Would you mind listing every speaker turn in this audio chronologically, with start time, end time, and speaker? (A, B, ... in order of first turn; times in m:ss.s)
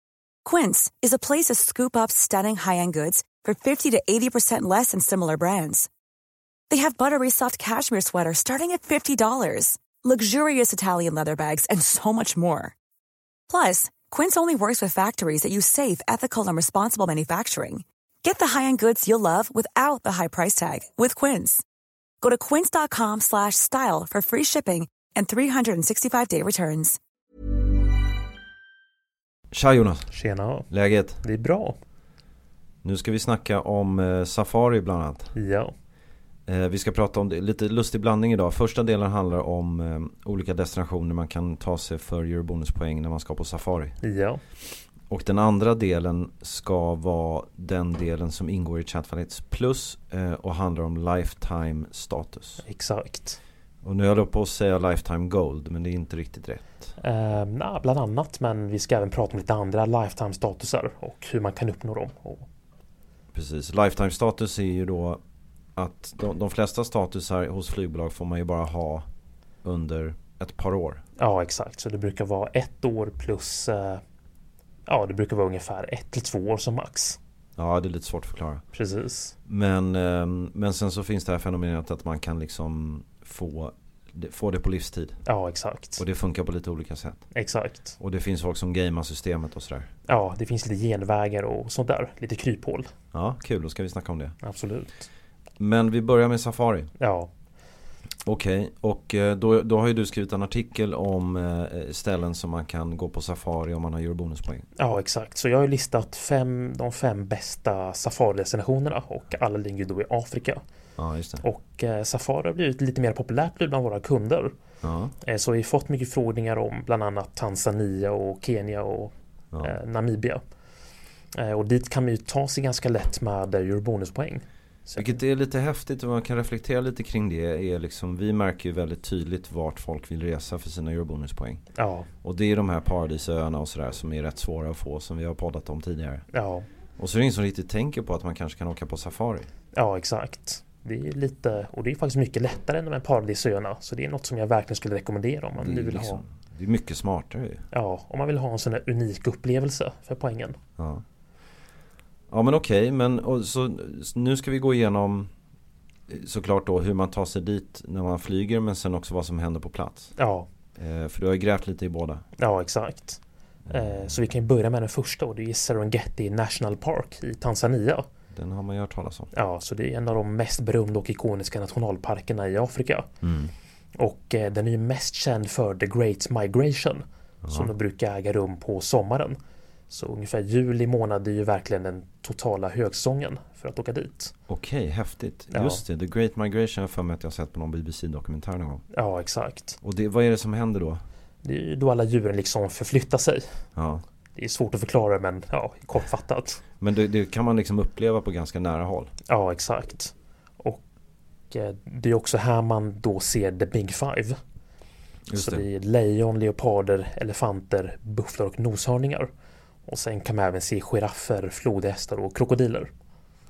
0:00.4-0:05.9 A
0:06.7-0:12.7 A
0:13.5-0:21.6 A
0:22.2-0:27.0 A
0:29.5-0:30.1 B
0:30.1-0:30.7 C
0:30.7-0:31.2 B
0:31.2-0:31.8 C
0:32.8-0:35.3 B
0:35.3-0:35.7 C
0:36.5-0:44.0 B
0:44.0-0:44.4 C
0:45.1-0:52.6 B
0:52.6-0:53.4 C
0:53.8-0:56.9 B
0:57.0-1:02.4 C
1:03.3-1:05.2 B
1:05.8-1:09.1 B
1:09.6-1:11.0 B
1:11.2-1:14.0 C
1:14.9-1:17.2 C
1:17.6-1:18.6 B
1:18.7-1:19.3 C
1:19.4-1:25.2 B
1:25.2-1:26.0 C
1:26.0-1:27.2 B
1:27.3-1:28.0 C
1:28.0-1:29.9 B
1:30.1-1:32.9 C
1:33.1-1:34.4 B
1:34.4-1:35.1 C
1:35.6-1:36.9 B
1:37.0-1:37.3 C
1:38.2-1:44.6 B
1:44.8-1:50.6 C
1:51.0-1:51.4 B
1:51.4-1:54.5 C
1:54.8-1:55.1 B
1:55.2-2:00.4 C
1:59.5-1:59.8 B
2:01.3-2:05.2 C
2:05.0-2:11.6 B
2:11.7-2:12.1 C
2:12.2-2:16.2 B
2:16.3-2:16.7 C
2:17.0-2:19.5 B
2:19.7-2:26.2 C
2:25.6-2:27.6 B
2:27.7-2:30.6 C
2:30.8-2:31.0 B
2:32.3-2:35.3 B
2:36.1-2:40.1 B
2:40.2-2:40.5 C
2:40.8-2:42.2 B
2:42.4-2:48.1 C
2:43.7-2:44.1 B
2:48.3-2:49.3 B
2:49.3-2:53.1 C
2:53.2-2:53.5 B
2:54.0-2:59.4 C
2:57.4-2:57.7 B
2:59.9-3:04.3 C
3:04.5-3:08.8 B
3:05.5-3:05.8 C
3:08.9-3:09.8 C
3:09.8-3:11.0 B
3:11.4-3:13.5 C
3:13.8-3:14.0 B
3:14.3-3:16.6 C
3:16.8-3:19.1 B
3:19.3-3:20.8 C
3:21.5-3:24.4 C
3:25.3-3:25.6 B
3:25.3-3:29.3 C
3:29.8-3:32.9 C